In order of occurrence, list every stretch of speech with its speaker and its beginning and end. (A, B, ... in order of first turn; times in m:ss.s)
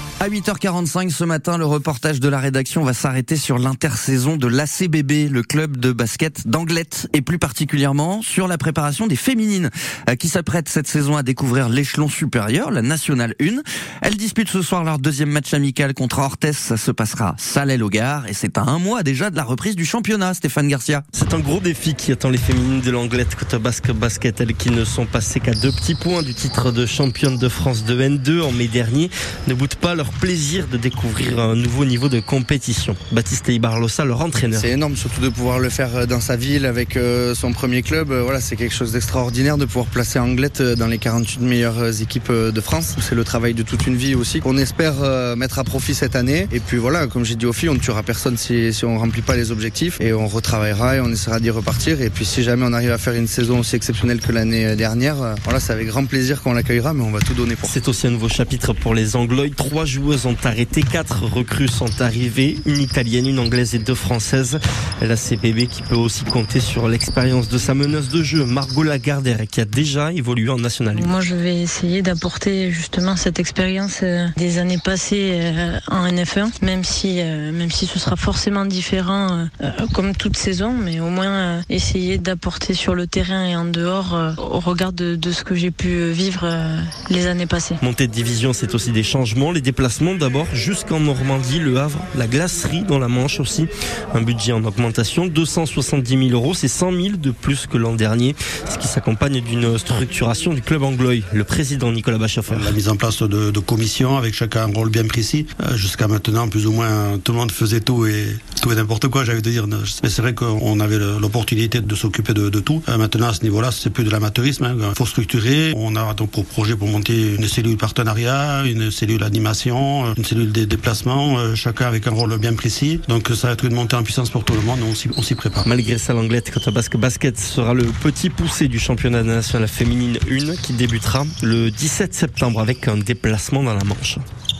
0:00.2-0:21.0 A
0:21.1-0:34.7 B
0:34.5-0:57.7 C
0:57.6-1:11.1 B
1:11.0-1:27.8 D
1:27.8-1:42.7 B
1:42.5-2:05.6 E
2:05.6-2:14.2 B